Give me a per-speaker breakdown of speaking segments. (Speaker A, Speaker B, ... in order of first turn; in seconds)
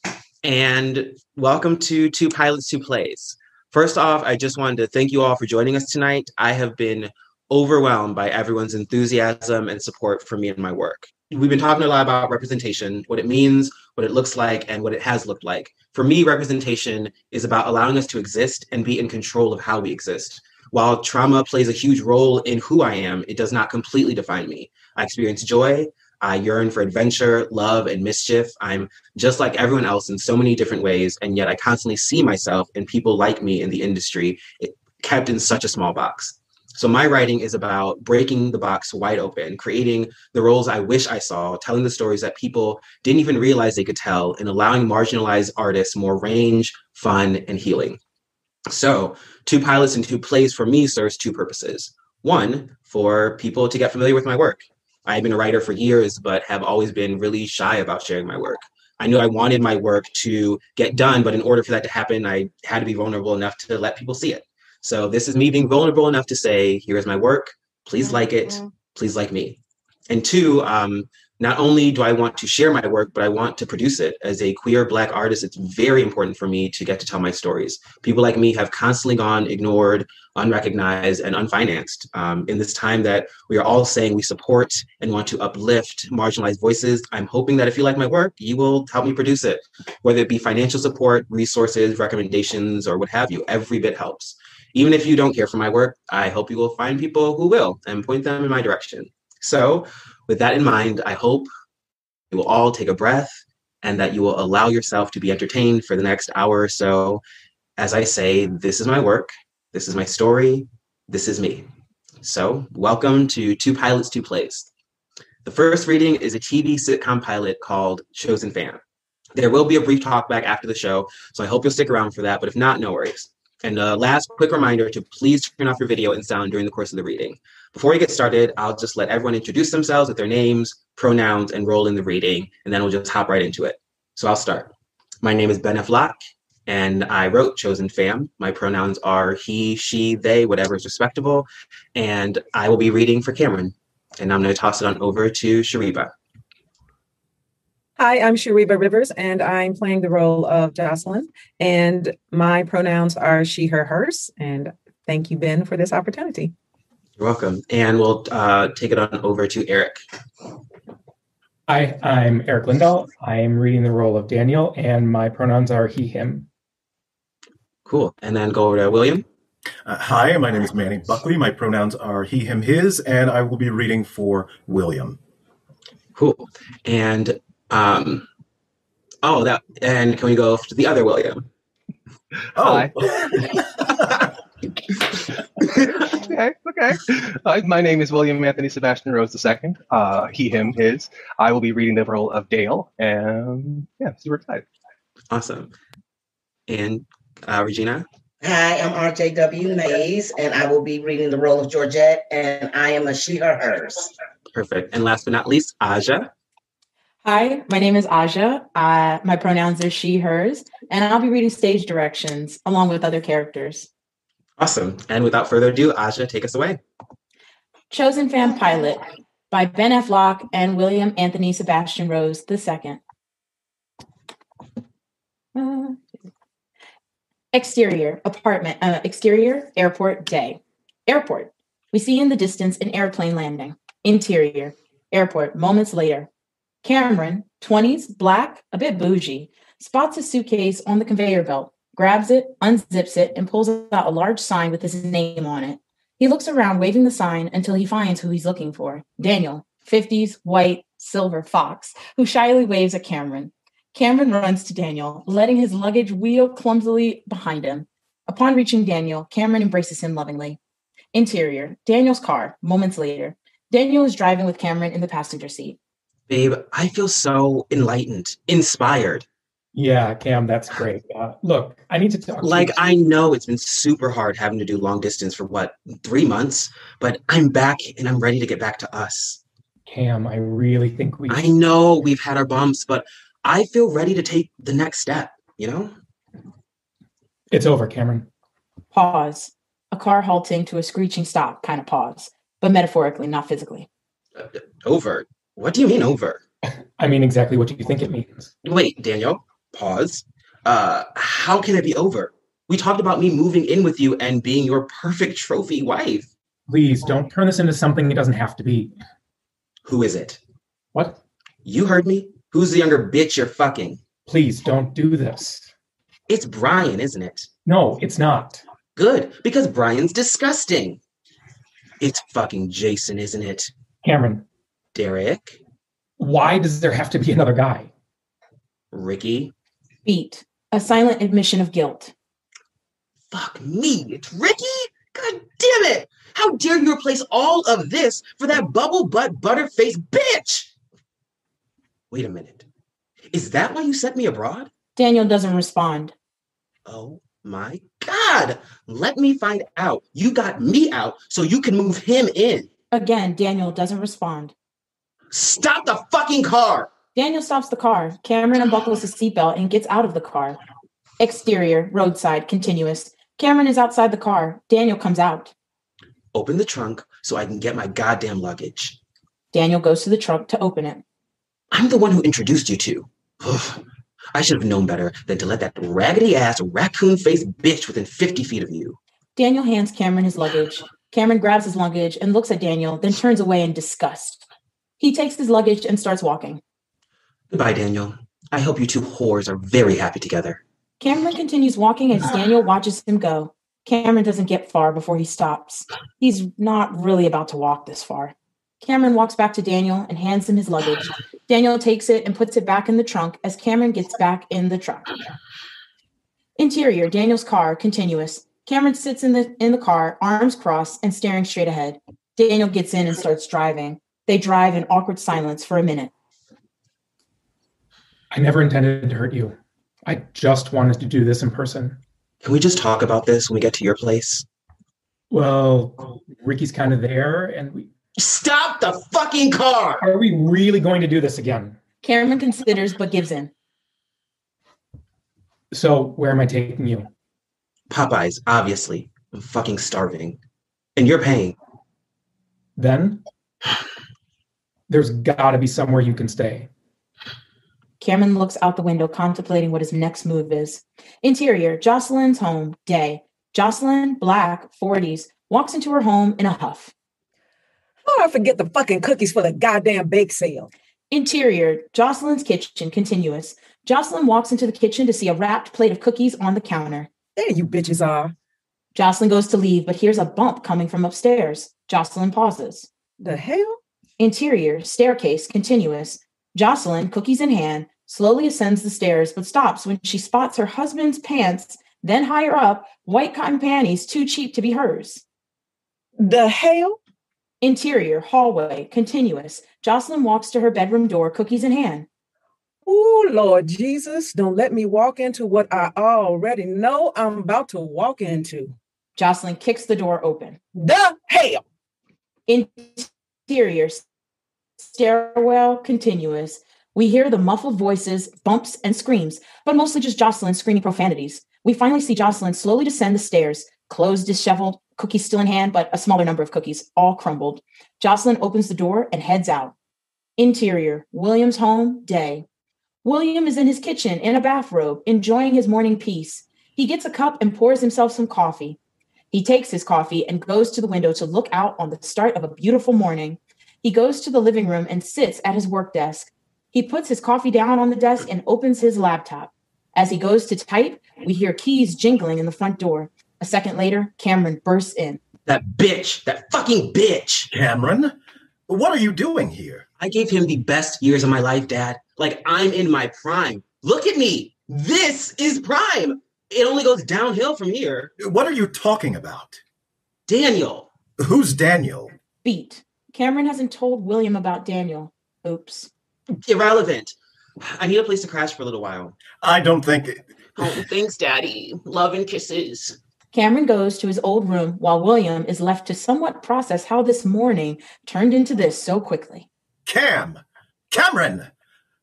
Speaker A: 0.4-48.0, 48.7-69.6, 70.1-101.5, 102.3-107.2, 107.8-111.7, 112.2-114.7, 115.4-118.8, 119.3-134.7, 135.2-136.2, 136.7-146.1, 157.2-160.0, 167.8-169.2, 176.2-178.2, 179.2-181.4, 195.3-195.7, 196.7-198.1, 204.5-206.3, 214.6-216.8, 266.3-269.3, 272.4-279.4, 281.3-285.9, 294.4-296.4, 298.6-306.3, 309.9-310.4, 311.6-314.0, 316.3-317.5, 319.0-321.0, 322.0-323.7, 324.9-325.6, 328.9-329.5, 333.3-340.7, 342.1-342.6, 343.3-344.7, 346.9-352.7, 355.3-356.9, 366.3-369.0, 371.7-373.8, 374.3-379.0, 387.5-390.6, 422.4-424.4, 428.2-430.0, 437.9-440.4, 441.0-441.6, 545.5-547.5, 550.0-558.1, 560.3-560.9, 566.5-569.1, 570.6-573.0
Speaker B: 148.0-156.5, 458.1-460.7, 467.4-468.3, 473.2-473.8, 486.2-487.0, 492.9-498.7, 500.7-501.6
Speaker C: 161.7-166.5, 269.8-272.8, 279.9-281.5, 287.5-288.3, 297.0-298.5, 306.7-308.9, 310.9-311.2, 314.3-315.7, 317.7-318.6, 324.0-324.4, 326.2-327.9, 418.3-422.0, 425.3-427.9, 430.0-431.8, 435.7-437.1, 442.8-443.2, 444.9-446.7
Speaker D: 169.8-175.2, 182.6-184.2, 547.5-548.1, 548.7-549.9, 558.2-559.6, 561.2-562.1, 569.4-570.8, 579.9-580.4, 580.9-581.5
Speaker E: 182.6-183.1, 185.6-194.7
Speaker F: 198.4-204.1
Speaker G: 207.2-213.9, 217.9-223.0, 225.5-226.0, 227.5-236.3, 236.8-260.6, 261.1-265.8, 288.9-293.9, 330.1-332.1, 345.0-346.1, 352.9-354.5, 357.1-360.6, 361.2-365.5, 369.5-371.0, 379.4-384.4, 385.0-386.6, 391.0-405.1, 406.6-416.1, 432.0-433.5, 448.0-456.9, 461.1-467.1, 468.9-472.9, 474.2-485.2, 487.6-492.1, 499.2-500.6, 502.5-504.0, 504.8-519.8, 520.4-522.5, 523.0-528.8, 529.3-545.2, 562.4-565.9, 573.3-579.5